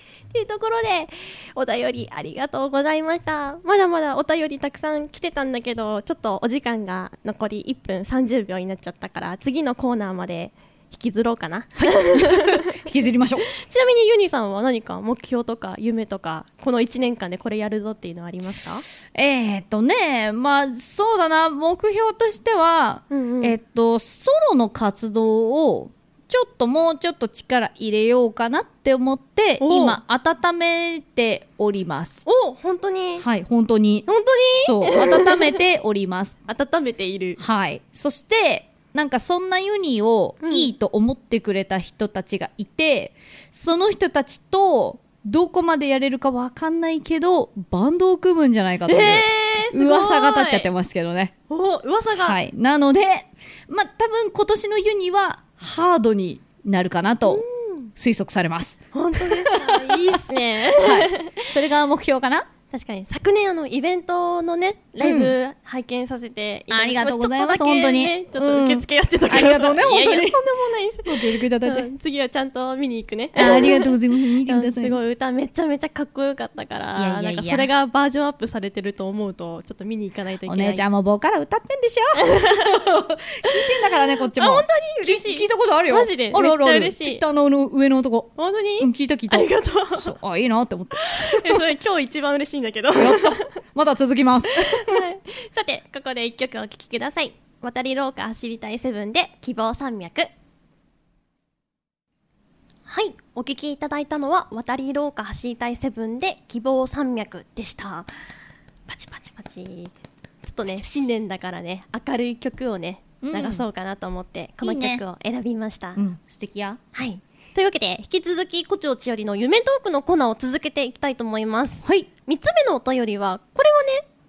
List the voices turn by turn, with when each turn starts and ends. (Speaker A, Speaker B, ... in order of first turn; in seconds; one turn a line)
Speaker A: 0.3-12.8
Speaker B: 11.8-13.4
Speaker A: 13.5-18.8
Speaker B: 19.1-32.2
Speaker A: 23.1-23.6
Speaker A: 29.6-30.0
Speaker A: 32.2-33.2
Speaker B: 33.2-36.4
Speaker A: 34.1-35.6
Speaker A: 36.5-37.4
Speaker B: 37.4-51.3
Speaker A: 40.4-40.7
Speaker A: 48.9-50.7
Speaker A: 51.5-52.4
Speaker B: 52.2-57.4
Speaker A: 57.2-57.9
Speaker B: 58.0-60.0
Speaker A: 58.9-61.5
Speaker B: 60.8-62.5
Speaker A: 62.7-80.8
Speaker B: 65.0-65.3
Speaker B: 66.7-70.4
Speaker B: 71.0-71.9
Speaker B: 73.3-75.0
Speaker B: 77.0-77.7
Speaker B: 80.5-91.6
Speaker A: 82.2-82.7
Speaker A: 84.3-87.2
Speaker A: 88.3-90.1
Speaker A: 91.0-93.4
Speaker B: 92.9-95.0
Speaker A: 94.6-100.3
Speaker A: 102.9-108.1
Speaker A: 108.9-116.0
Speaker B: 113.2-113.6
Speaker B: 114.6-115.0
Speaker B: 116.0-116.8
Speaker A: 116.9-124.0
Speaker B: 121.8-122.1